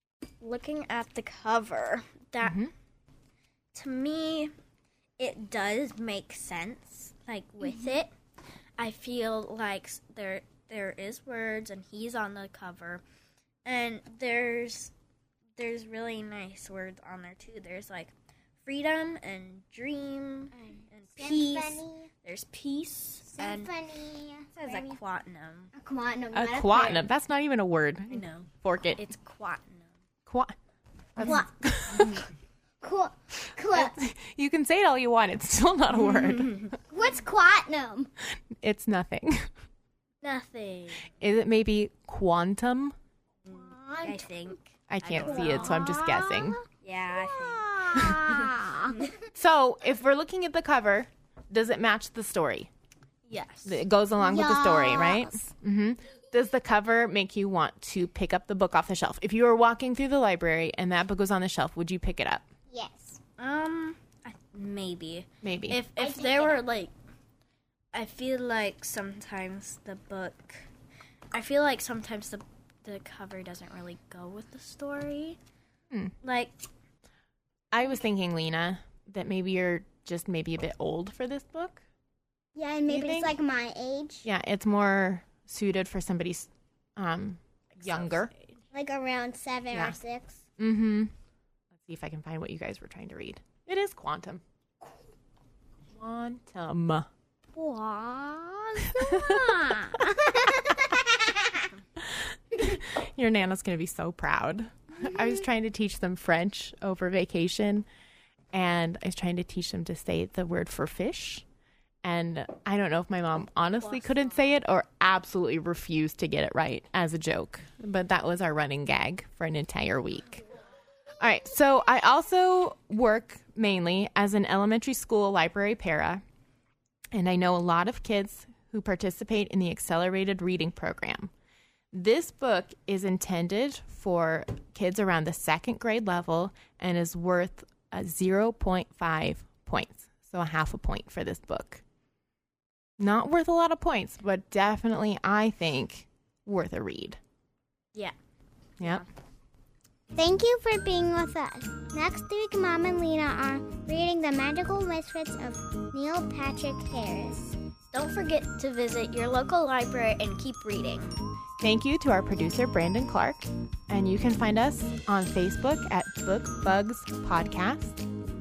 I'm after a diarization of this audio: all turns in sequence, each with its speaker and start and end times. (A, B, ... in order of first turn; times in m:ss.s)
0:00.4-0:02.6 A
0:02.4-0:02.7 B
0:03.7-0:04.5 A
0:05.2-0:08.1 A
0:08.8-0:13.0 A
0:13.6-0:14.9 A
0:15.6-0:23.7 A
0:20.6-0:22.1 C
0:23.3-0:25.0 C
0:24.5-0:25.7 A
0:25.7-0:27.1 C
0:26.3-0:29.1 B
0:28.1-0:29.9 A
0:30.3-0:30.5 B
0:31.2-0:32.2 B
0:31.2-0:32.2 C
0:32.8-0:34.0 C
0:33.7-0:36.6 B
0:36.1-0:36.8 A
0:36.9-0:38.1 C
0:38.6-0:39.5 B
0:40.2-0:41.1 A
0:41.2-0:43.0 B
0:43.5-0:46.0 A
0:43.6-0:44.3 C
0:44.9-0:46.6 B
0:45.5-0:46.6 C
0:46.8-0:48.3 A
0:47.2-0:49.0 C
0:48.0-0:48.4 B
0:49.3-0:52.7 B
0:53.3-0:53.8 A
0:53.6-1:02.5 B
0:54.2-0:55.4 C
1:02.7-1:03.2 C
1:03.4-1:06.9 A
1:05.4-1:05.8 B
1:06.0-1:06.6 C
1:07.9-1:10.7 A
1:11.3-1:15.4 A
1:16.2-1:16.6 A
1:17.7-1:21.8 B
1:22.6-1:24.3 C
1:22.9-1:23.4 B
1:24.2-1:28.3 B
1:27.7-1:28.6 A
1:28.7-1:30.4 C
1:29.7-1:30.0 B
1:30.6-1:31.1 B
1:31.7-1:34.4 B
1:35.9-1:37.1 B
1:37.6-1:41.3 C
1:38.8-1:39.6 B
1:42.0-1:47.9 B
1:48.5-1:51.4 B
1:52.0-2:00.4 B
1:53.8-1:54.6 A
2:01.2-2:06.2 B
2:07.1-2:11.3 B
2:11.9-2:21.8 B
2:23.0-2:27.2 B
2:28.8-2:29.1 A
2:30.1-2:37.5 C
2:37.9-2:41.1 A
2:41.6-2:48.0 B